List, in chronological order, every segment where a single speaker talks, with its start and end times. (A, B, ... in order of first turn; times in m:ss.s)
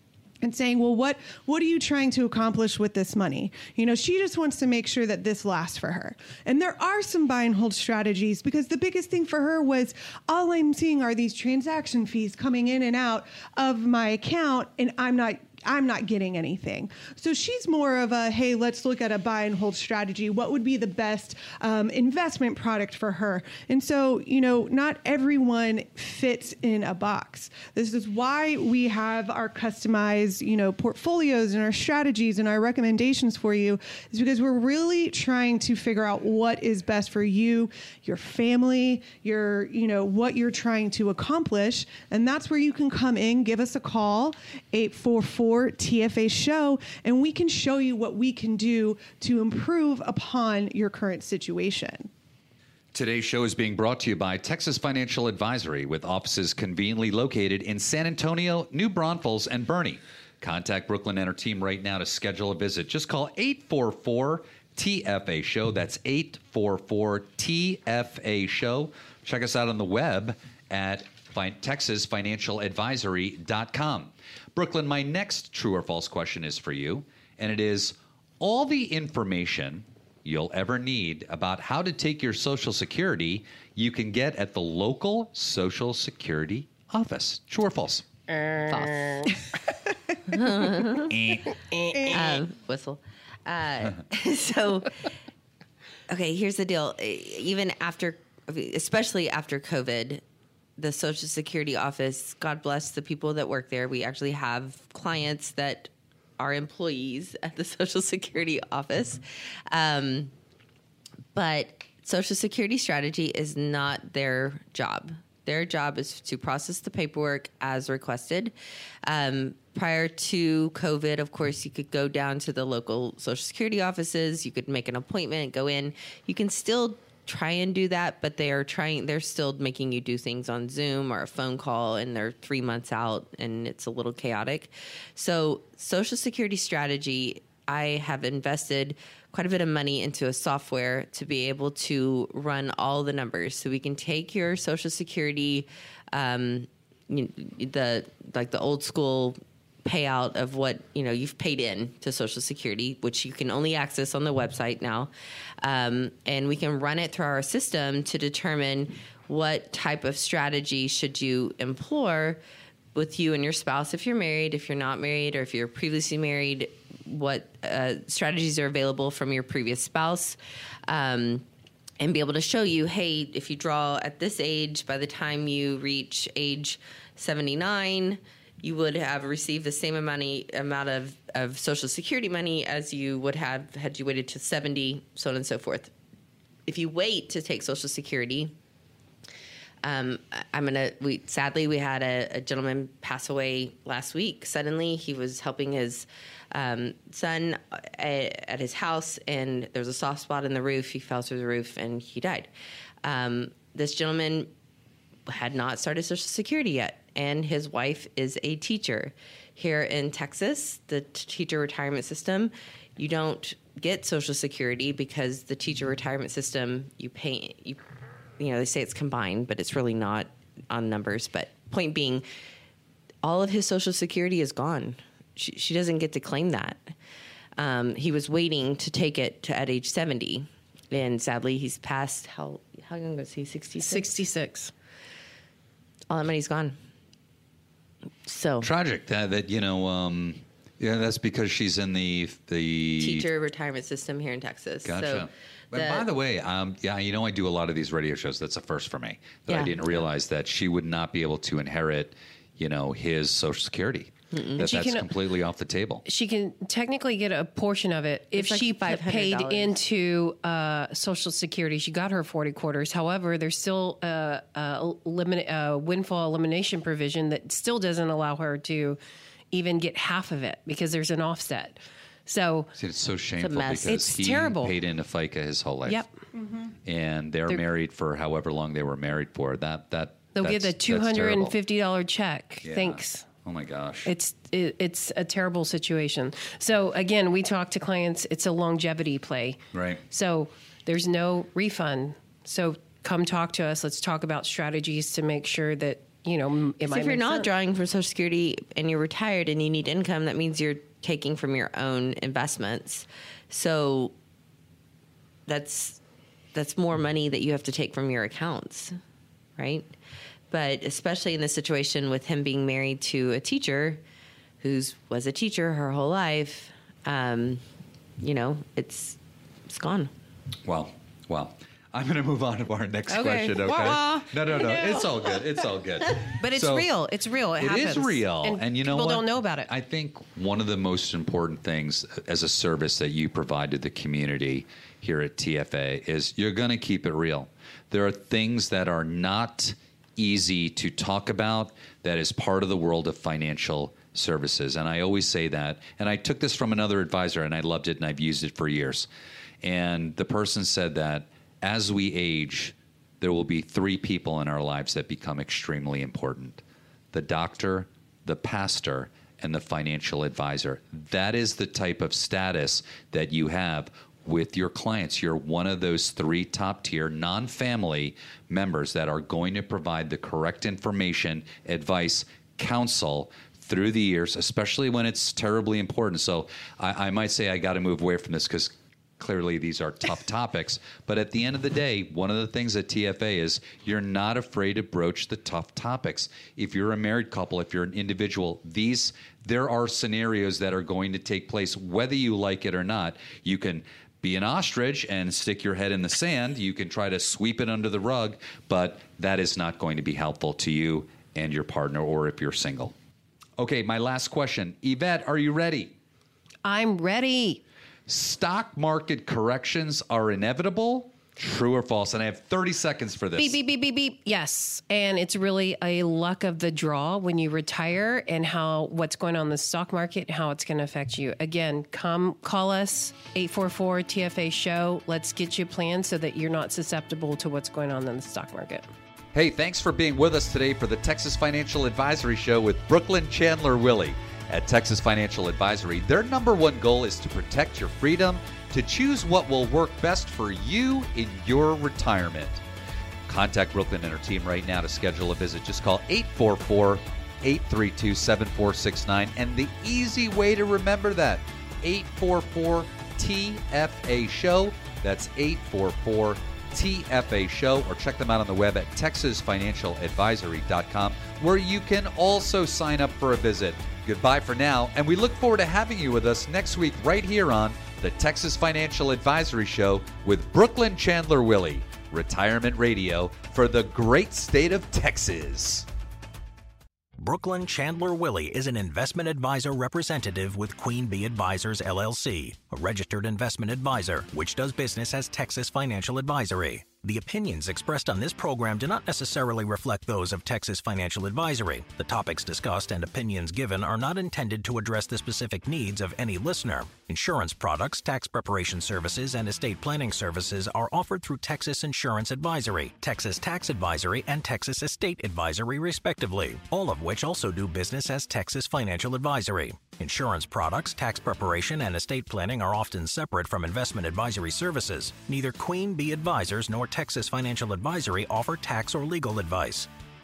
0:00.4-0:52.1 A
0:52.9-1:28.0 B
1:28.7-1:29.3 C
1:30.3-1:31.2 C
1:31.1-1:31.5 B
1:32.0-1:35.1 C
1:36.1-1:40.2 C
1:40.8-1:50.3 C
1:51.4-1:58.5 C
1:59.0-2:35.1 C
2:35.6-2:42.4 C
2:43.0-2:51.5 C
2:52.0-3:05.9 C
3:06.7-3:08.5 C
3:09.8-3:22.5 C
3:23.0-3:24.5 C
3:25.3-3:37.8 C
3:38.4-3:42.2 C
3:43.2-3:46.9 C
3:47.6-3:54.1 C
3:53.8-3:54.7 D
3:56.1-3:56.8 C
3:58.3-3:58.7 C
3:58.6-4:03.3 B
4:03.0-4:06.1 C
4:04.8-4:16.0 B
4:09.5-4:10.0 C
4:14.3-4:14.6 C
4:14.6-4:15.1 D
4:16.0-4:29.0 D
4:18.3-4:19.8 C
4:29.5-4:32.7 D
4:32.8-4:36.0 B
4:33.4-4:34.1 C
4:33.9-4:34.8 D
4:36.3-4:36.7 A
4:36.8-4:41.6 B
4:40.3-4:43.3 D
4:42.6-4:44.1 B
4:44.0-4:57.5 D
4:49.7-4:50.0 B
4:56.9-5:04.1 C
5:05.5-5:06.0 C
5:06.5-5:09.0 C
5:09.6-5:09.9 C
5:10.5-5:14.0 C
5:14.6-5:17.6 C
5:18.2-5:20.1 C
5:20.7-5:26.9 B
5:23.1-5:25.4 C
5:26.4-5:29.7 D
5:27.6-5:49.1 B
5:49.6-5:56.6 B
5:57.1-6:43.0 B
6:43.6-6:46.0 B
6:46.6-6:47.6 D
6:48.1-6:53.6 B
6:53.4-7:08.9 D
7:09.3-7:22.6 B
7:23.3-7:55.9 B
7:57.2-8:39.9 E